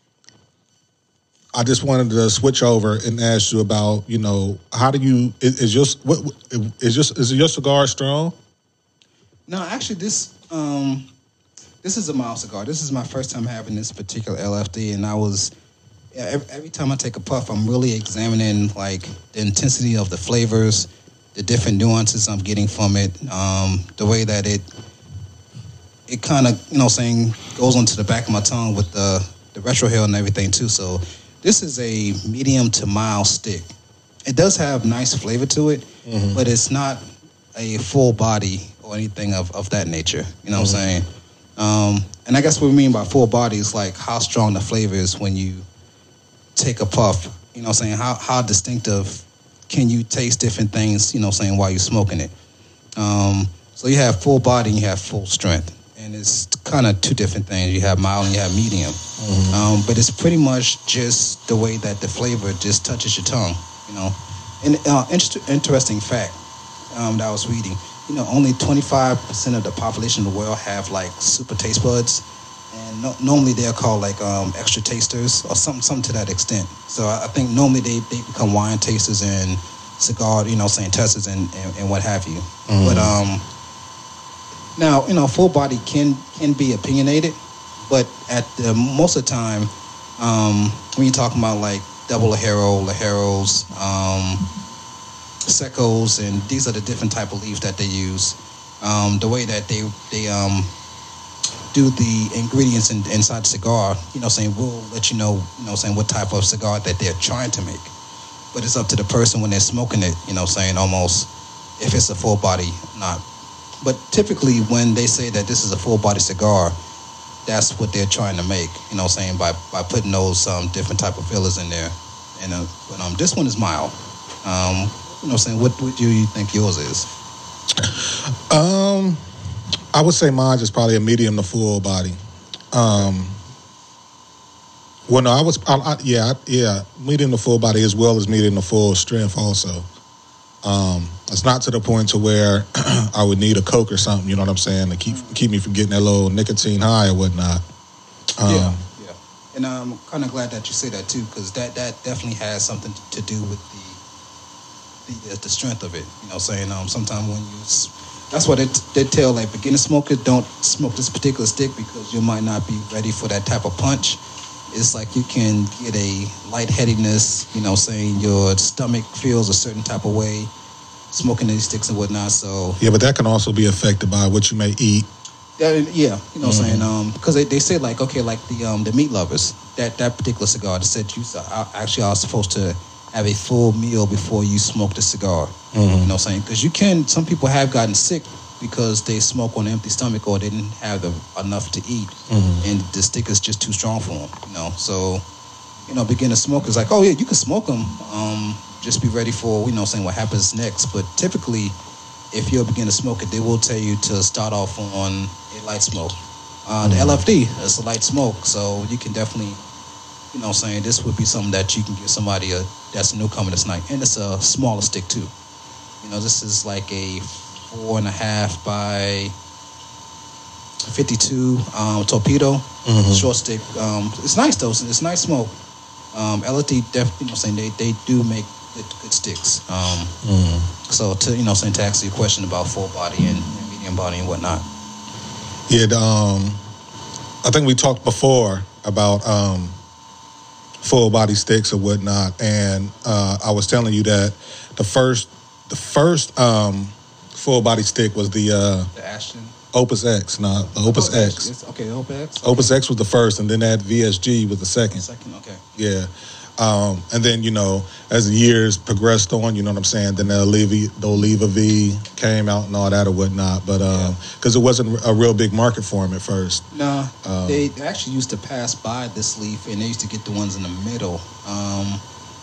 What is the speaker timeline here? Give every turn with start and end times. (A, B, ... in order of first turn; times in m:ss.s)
0:01.5-0:08.3 A
0:09.5-0:11.1 B
0:11.8-0:15.5 B
0:16.1-0:24.7 B
0:26.1-0:33.7 B
0:34.2-0:37.0 B
0:36.0-0:36.4 A
0:37.5-0:45.6 B
0:40.6-0:40.8 A
0:46.5-0:52.3 B
0:53.0-1:23.4 B
0:59.2-0:59.6 A
1:22.7-1:23.1 A
1:24.8-1:34.5 B
1:35.4-1:40.7 B
1:41.7-1:47.9 B
1:48.5-1:53.2 B
1:53.8-1:56.8 B
1:57.4-2:07.1 B
2:07.8-2:09.2 A
2:09.9-2:12.2 A
2:12.7-2:13.4 A
2:15.1-2:19.9 A
2:20.6-2:27.6 A
2:25.0-2:25.3 B
2:28.4-2:28.8 A
2:28.4-2:34.0 B
2:35.0-2:50.5 B
2:51.1-2:52.8 B
2:52.8-2:55.1 A
2:55.6-3:15.2 B
2:56.4-2:56.9 A
3:05.7-3:06.1 A
3:12.3-3:12.6 A
3:15.9-3:21.7 B
3:22.3-3:29.6 B
3:26.8-3:27.2 A
3:30.3-3:35.3 B
3:36.0-3:39.4 B
3:40.8-3:45.5 B
3:42.8-3:43.3 A
3:46.1-3:50.1 B
3:50.2-3:50.7 A
3:50.8-3:54.7 B
3:55.7-3:56.6 A
3:57.4-3:59.8 A
4:00.8-4:08.9 A
4:08.9-4:09.6 B
4:09.7-4:11.5 A
4:10.8-4:12.7 B
4:12.4-4:15.0 A
4:14.9-4:15.7 B
4:15.8-4:26.7 A
4:23.9-4:24.1 B
4:26.7-4:32.0 B
4:27.2-4:27.7 A